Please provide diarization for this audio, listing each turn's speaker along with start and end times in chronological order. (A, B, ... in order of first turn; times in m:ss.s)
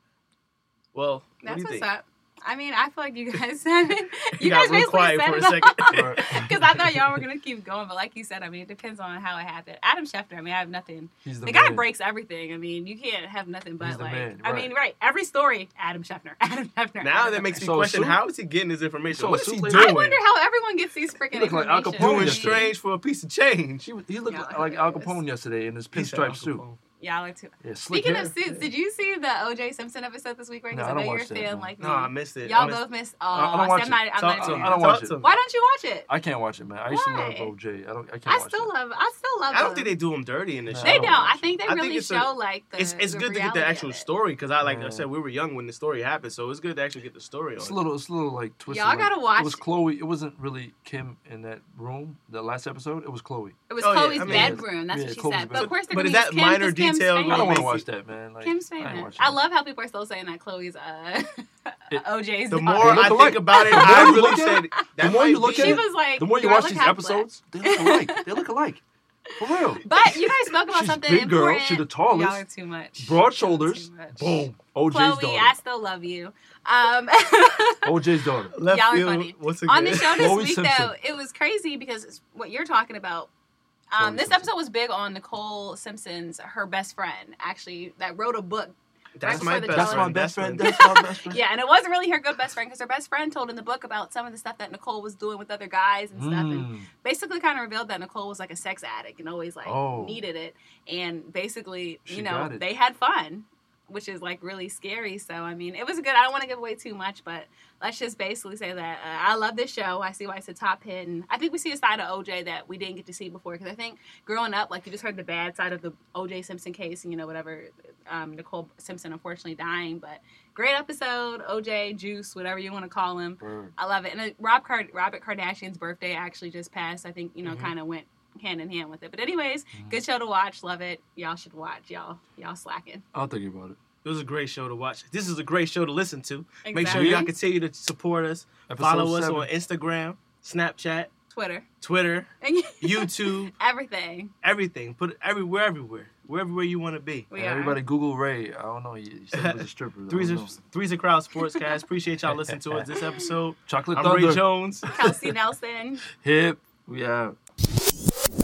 0:00.9-0:01.9 A
0:01.4-0:17.6 B
0:04.4-0:06.5 A
0:05.9-0:07.2 C
0:11.2-0:11.9 C
0:13.8-0:14.7 C
0:17.0-0:20.2 A
0:17.6-0:18.2 C
0:19.1-0:20.0 C
0:19.7-0:22.7 B
0:21.3-0:22.7 C
0:22.0-0:23.9 A
0:23.8-0:26.6 C
0:24.3-0:25.2 B
0:25.9-0:26.8 A
0:27.0-0:36.1 B
0:27.6-0:28.7 C
0:30.7-0:31.7 C
0:31.8-0:32.8 A
0:33.3-0:35.3 C
0:34.2-0:35.3 A
0:36.1-0:38.7 C
0:36.9-0:37.5 B
0:38.3-0:40.0 B
0:39.5-0:47.8 A
0:40.7-0:41.4 C
0:40.8-0:44.1 B
0:44.6-0:45.1 C
0:47.6-0:53.6 C
0:48.7-0:49.6 B
0:53.7-0:57.8 B
0:53.8-0:54.6 A
0:54.2-0:55.7 C
0:55.5-0:57.8 A
0:57.2-0:59.4 C
0:58.4-1:04.7 B
1:02.5-1:05.8 A
1:02.8-1:08.8 C
1:05.4-1:08.4 B
1:09.3-1:17.9 B
1:09.4-1:09.9 C
1:10.7-1:12.4 C
1:13.0-1:15.6 C
1:17.8-1:18.6 C
1:18.6-1:20.3 A
1:18.6-1:23.3 B
1:20.0-1:21.0 C
1:23.9-2:13.0 B
1:24.0-1:24.5 C
1:29.2-1:30.8 A
1:29.3-1:31.4 C
1:36.1-1:36.9 C
1:39.6-1:40.2 C
1:42.1-1:42.6 C
2:03.4-2:03.7 C
2:07.4-2:07.7 A
2:09.7-2:10.0 C
2:13.1-2:13.8 C
2:14.0-2:21.1 A
2:16.6-2:17.3 B
2:16.9-2:17.3 C
2:18.7-2:19.5 C
2:21.3-2:21.7 B
2:21.8-2:23.5 A
2:22.4-2:24.3 B
2:24.4-2:27.3 A
2:27.3-2:27.8 B
2:27.3-2:30.6 C
2:29.3-2:34.9 A
2:32.3-2:32.9 C
2:33.7-2:34.4 C
2:34.9-2:36.0 B
2:36.1-2:37.4 C